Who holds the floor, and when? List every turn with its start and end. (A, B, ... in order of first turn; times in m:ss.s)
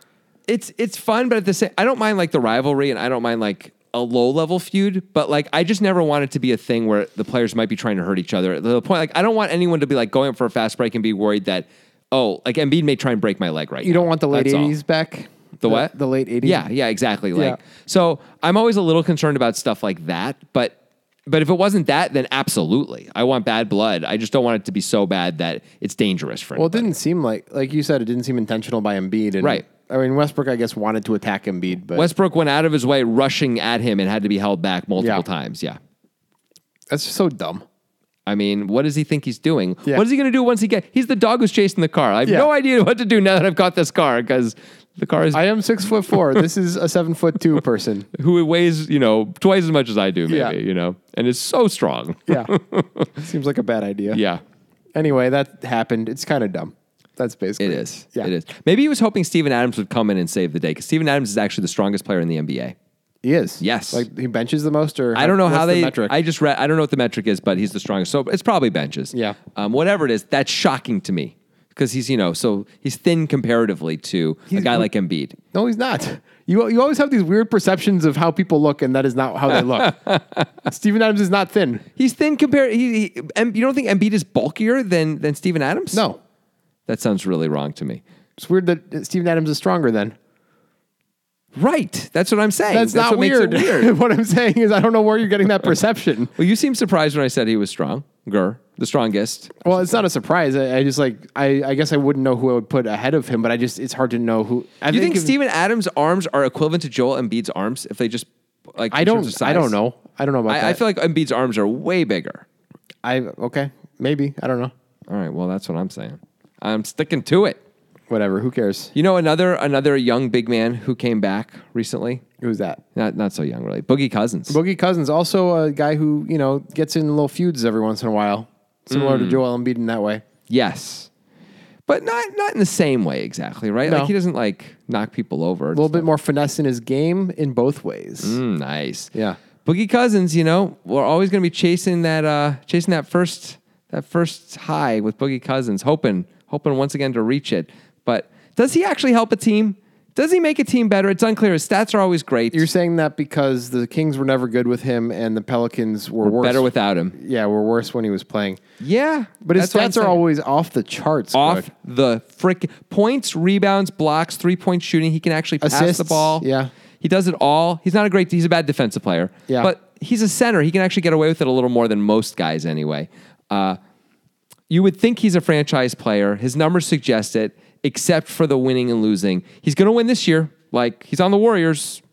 0:00.5-0:14.8 A
0:13.8-0:16.6 B
0:15.6-0:20.7 A
0:21.3-0:26.9 A
0:26.6-0:32.1 B
0:31.9-0:35.8 A
0:35.0-0:35.2 B
0:36.9-0:37.6 B
0:38.2-0:45.4 A
0:45.3-0:48.1 B
0:48.1-0:53.1 A
0:50.3-0:50.6 B
0:52.3-0:52.5 B
0:53.1-0:54.2 B
0:54.1-0:54.4 A
0:54.9-0:58.3 B
0:57.6-1:02.7 A
1:03.2-1:06.1 B
1:03.6-1:04.0 A
1:05.1-1:15.4 A
1:09.1-1:09.4 B
1:14.5-1:14.9 B
1:15.5-1:20.1 B
1:19.5-1:20.5 A
1:20.6-1:21.8 B
1:22.0-1:26.0 A
1:25.9-1:26.2 B
1:26.9-1:28.0 A
1:28.4-1:30.2 B
1:31.5-1:33.9 A
1:32.7-1:36.3 B
1:36.4-1:40.0 A
1:39.6-1:45.3 B
1:44.9-1:49.7 A
1:48.9-1:50.8 B
1:50.5-1:52.4 A
1:53.0-1:54.7 B
1:55.1-1:57.6 A
1:58.1-1:58.9 B
1:58.9-2:02.2 A
2:02.4-2:02.8 B
2:02.9-2:04.6 A
2:04.5-2:10.2 B
2:08.9-2:09.4 A
2:10.5-2:11.1 A
2:11.9-2:16.0 A
2:13.8-2:14.1 B
2:15.7-2:18.4 B
2:18.2-2:19.1 A
2:19.1-2:19.4 B
2:19.6-2:32.7 A
2:32.5-2:38.6 B
2:36.2-2:37.2 A
2:38.8-2:40.2 A
2:39.4-2:41.7 B
2:41.3-2:46.4 A
2:45.6-2:46.7 B
2:47.0-2:53.8 A
2:54.7-3:02.0 A